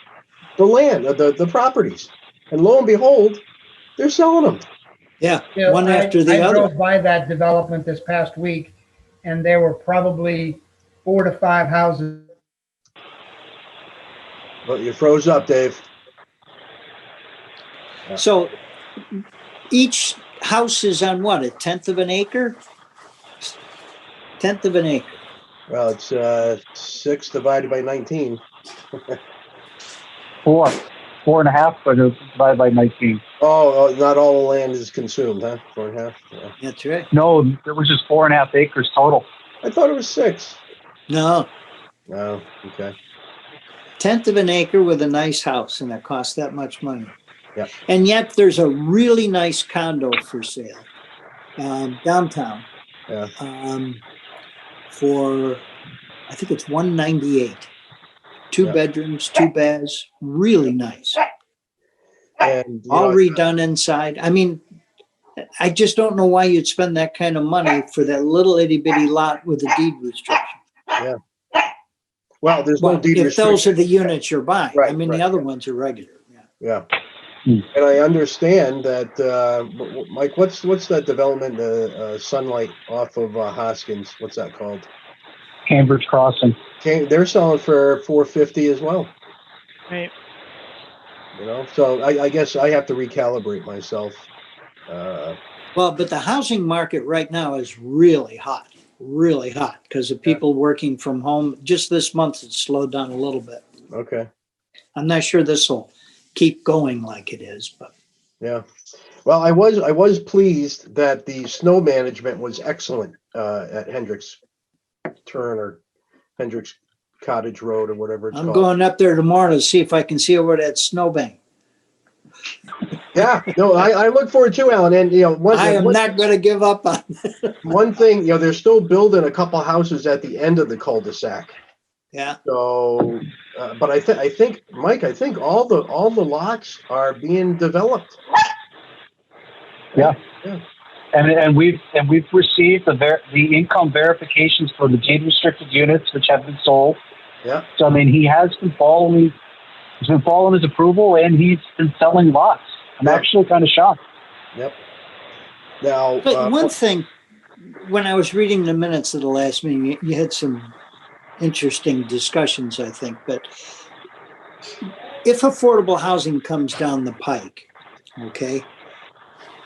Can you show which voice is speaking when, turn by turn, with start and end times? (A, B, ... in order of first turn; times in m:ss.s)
0:00.6-0:03.4 A
0:04.0-0:04.6 A
0:05.2-0:06.7 B
0:05.6-0:12.3 C
0:14.6-0:15.8 A
0:18.2-0:18.6 B
0:19.7-0:22.6 B
0:24.4-0:25.1 B
0:25.7-0:28.4 A
0:30.4-0:33.2 D
0:33.4-0:36.5 A
0:36.6-0:37.1 B
0:37.1-0:39.3 D
0:39.6-0:40.6 A
0:41.1-0:41.5 B
0:42.1-0:42.9 A
0:44.0-0:47.1 B
0:47.9-0:50.9 B
0:51.6-0:52.7 B
0:53.4-0:54.0 B
0:54.9-0:55.7 B
0:56.3-0:57.7 B
0:58.5-1:01.2 B
1:02.4-1:03.4 A
1:02.9-1:04.6 B
1:05.6-1:10.6 B
1:12.4-1:13.8 A
1:12.8-1:16.4 B
1:14.8-1:15.3 A
1:16.6-1:16.9 A
1:17.7-1:24.9 A
1:25.7-1:26.6 D
1:26.8-1:29.1 A
1:31.4-1:34.3 A
1:34.9-1:35.4 A
1:35.8-1:43.6 B
1:43.9-1:44.3 A
1:45.0-1:47.9 B
1:49.2-1:54.4 A
1:55.2-1:55.8 A
1:56.4-1:58.7 A
1:58.3-2:01.4 B
2:03.1-2:06.2 A
2:05.5-2:07.6 B
2:07.6-2:11.5 A
2:12.5-2:18.2 A
2:19.9-2:20.6 A
2:21.1-2:27.0 D
2:27.8-2:29.4 D
2:30.0-2:34.0 D
2:35.8-2:36.7 A
2:36.2-2:37.1 B
2:37.7-2:40.7 B
2:41.4-2:43.5 B
2:45.2-2:47.7 B
2:48.2-2:48.7 B